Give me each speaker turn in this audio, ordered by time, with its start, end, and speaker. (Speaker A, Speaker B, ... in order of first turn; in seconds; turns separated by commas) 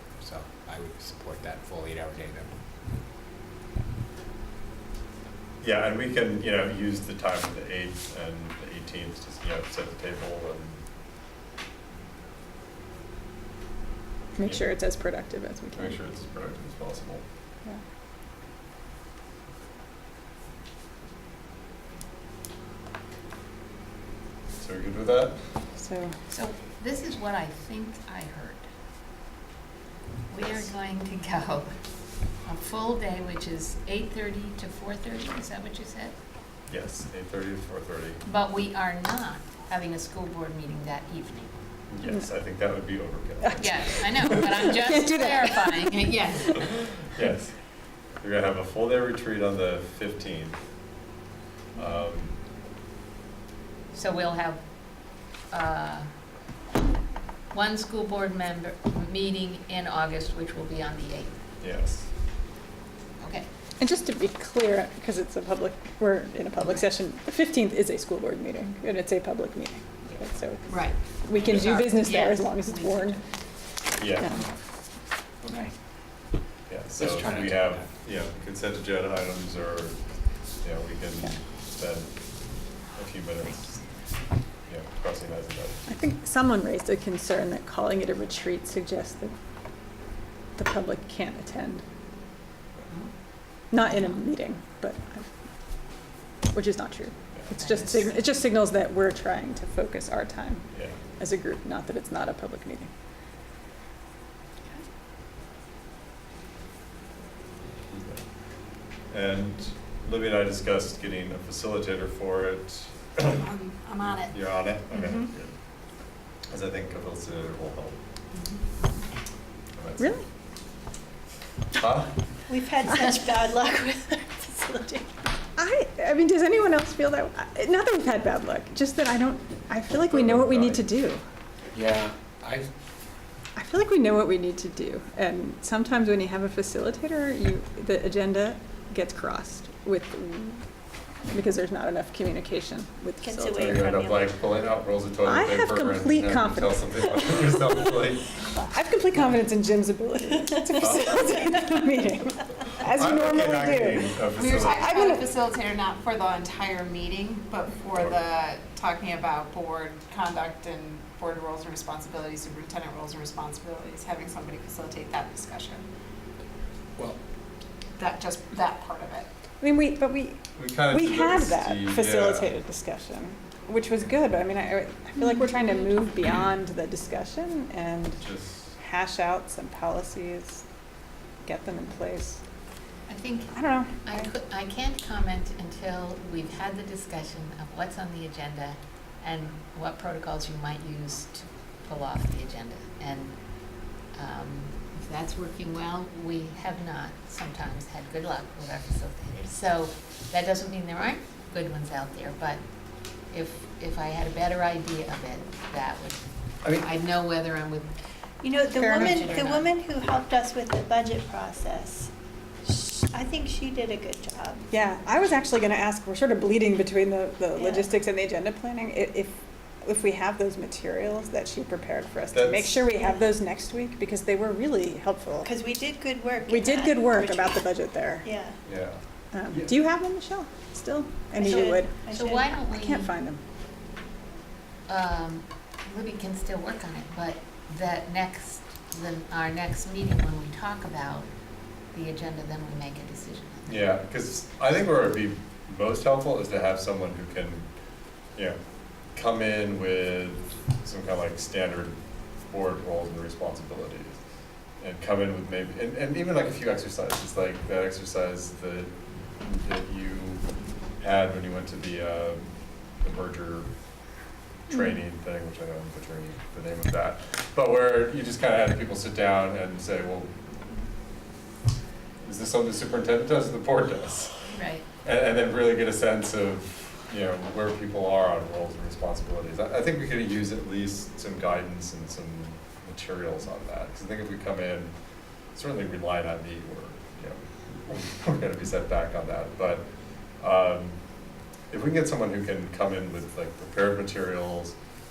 Speaker A: 0.2-2.5, Speaker B: 5.6-10.8, Speaker C: 14.4-16.0, Speaker B: 15.7-17.2, Speaker B: 24.6-25.4, Speaker C: 25.8-26.1, Speaker D: 26.3-28.6, Speaker D: 30.3-31.7, Speaker D: 32.4-36.1, Speaker B: 36.7-38.2, Speaker D: 38.2-41.5, Speaker B: 41.9-43.6, Speaker C: 43.4-46.5, Speaker D: 43.5-46.9, Speaker B: 46.8-47.5, Speaker B: 48.2-50.6, Speaker B: 51.8-52.3, Speaker D: 53.9-54.6, Speaker D: 55.5-56.1, Speaker D: 57.5-61.4, Speaker B: 61.6-62.1, Speaker D: 63.2-63.5, Speaker C: 63.8-73.2, Speaker D: 70.7-73.2, Speaker B: 74.0-74.4, Speaker C: 75.5-75.7, Speaker B: 76.7-80.0, Speaker A: 76.9-77.9, Speaker B: 80.6-82.1, Speaker B: 82.9-83.7, Speaker B: 84.7-85.8, Speaker C: 85.9-89.3, Speaker C: 90.6-91.8, Speaker C: 93.7-95.2, Speaker D: 93.8-94.2, Speaker C: 96.5-102.9, Speaker D: 97.5-98.1, Speaker B: 100.7-101.0, Speaker B: 107.8-108.2, Speaker B: 109.1-113.5, Speaker E: 113.5-114.0, Speaker B: 114.0-115.5, Speaker B: 116.5-118.0, Speaker B: 119.8-120.1, Speaker C: 120.0-120.2, Speaker B: 121.7-122.1, Speaker F: 122.5-125.1, Speaker C: 125.5-131.2, Speaker B: 130.1-130.8, Speaker A: 131.7-132.7, Speaker C: 133.6-140.6, Speaker C: 141.3-143.8, Speaker F: 143.2-144.2, Speaker B: 143.5-148.3, Speaker C: 145.2-155.3, Speaker B: 152.9-154.8, Speaker E: 154.3-165.8, Speaker B: 157.9-158.2, Speaker E: 168.0-169.3, Speaker C: 169.6-178.2, Speaker B: 170.5-172.5, Speaker B: 178.2-178.7, Speaker C: 178.8-180.6, Speaker C: 181.4-182.4, Speaker D: 183.1-193.3, Speaker C: 183.5-184.3, Speaker D: 194.1-202.6, Speaker D: 203.3-207.9, Speaker F: 208.4-212.1, Speaker D: 208.7-209.7, Speaker F: 212.6-214.6, Speaker C: 214.7-225.6, Speaker F: 217.6-217.8, Speaker B: 222.3-222.8, Speaker F: 223.0-223.3, Speaker F: 225.4-227.6, Speaker C: 226.4-228.3, Speaker F: 228.2-228.6, Speaker B: 228.6-229.0, Speaker C: 229.3-232.1, Speaker F: 231.3-232.4, Speaker D: 232.1-233.1, Speaker C: 232.7-233.4, Speaker D: 234.9-241.3, Speaker D: 241.9-243.9, Speaker B: 243.7-247.7, Speaker B: 249.1-254.2, Speaker B: 254.8-260.4, Speaker B: 261.0-262.5, Speaker B: 263.0-263.7, Speaker B: 264.7-270.3, Speaker B: 272.2-284.9, Speaker D: 274.5-274.9, Speaker B: 285.5-289.9, Speaker B: 290.4-291.0, Speaker B: 291.7-294.8